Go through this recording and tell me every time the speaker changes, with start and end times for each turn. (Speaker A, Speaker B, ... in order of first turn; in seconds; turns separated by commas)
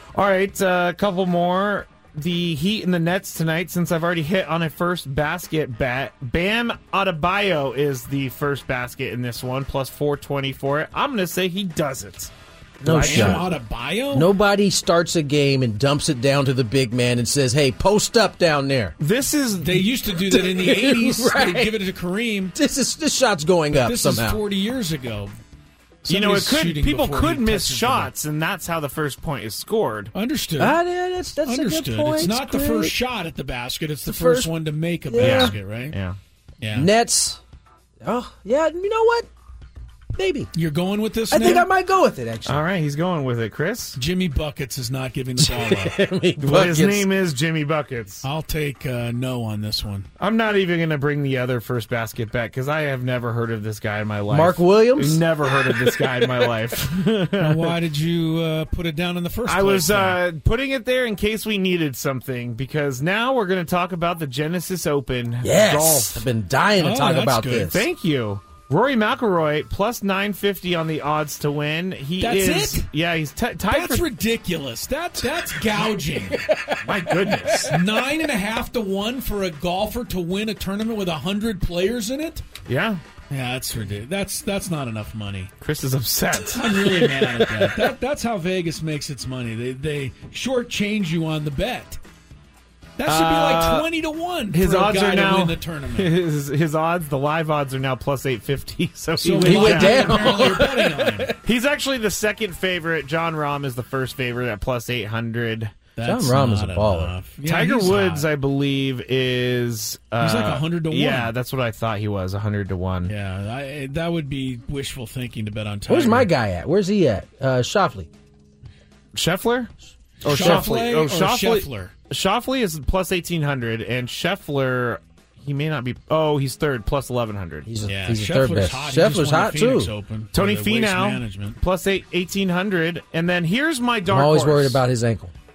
Speaker A: 0.1-12.3, Speaker B: 12.8-13.5, Speaker A: 12.8-13.5, Speaker C: 12.9-14.3, Speaker B: 14.1-18.9, Speaker A: 19.0-19.9, Speaker C: 19.6-22.5, Speaker B: 20.3-21.7, Speaker B: 22.5-24.4, Speaker C: 23.7-25.3, Speaker C: 26.0-28.1, Speaker A: 26.1-30.1, Speaker C: 30.1-30.8, Speaker B: 30.6-32.9, Speaker C: 31.4-35.9, Speaker B: 34.0-34.5, Speaker B: 35.1-35.5, Speaker A: 35.2-36.2, Speaker C: 36.6-36.9, Speaker B: 36.7-37.4, Speaker B: 38.0-39.3, Speaker B: 40.1-40.5, Speaker C: 40.5-41.7, Speaker B: 41.3-42.6, Speaker A: 42.5-44.0, Speaker C: 44.0-46.0, Speaker B: 45.4-47.1, Speaker A: 46.4-48.2, Speaker C: 48.2-50.1, Speaker A: 50.2-57.8, Speaker B: 54.3-56.3, Speaker C: 57.4-60.2, Speaker A: 59.5-66.3, Speaker B: 65.4-67.8, Speaker C: 66.8-67.8, Speaker A: 67.7-74.0, Speaker C: 72.2-72.9, Speaker C: 73.7-76.4, Speaker B: 76.5-77.7, Speaker A: 76.8-77.8, Speaker C: 77.6-82.4, Speaker A: 82.7-83.0, Speaker C: 83.3-85.5, Speaker A: 85.6-86.8, Speaker C: 86.5-92.0, Speaker C: 93.0-96.2, Speaker A: 93.0-93.9, Speaker A: 94.5-100.7, Speaker C: 99.2-101.3, Speaker B: 99.4-101.3, Speaker A: 101.3-105.8, Speaker C: 106.0-108.3, Speaker B: 106.0-107.1, Speaker A: 107.4-113.1, Speaker C: 110.2-111.3, Speaker C: 113.1-116.3, Speaker B: 115.9-118.1, Speaker A: 119.1-127.7, Speaker C: 120.2-121.9, Speaker B: 127.7-129.9, Speaker C: 127.9-131.6, Speaker A: 130.3-134.8, Speaker B: 134.1-135.3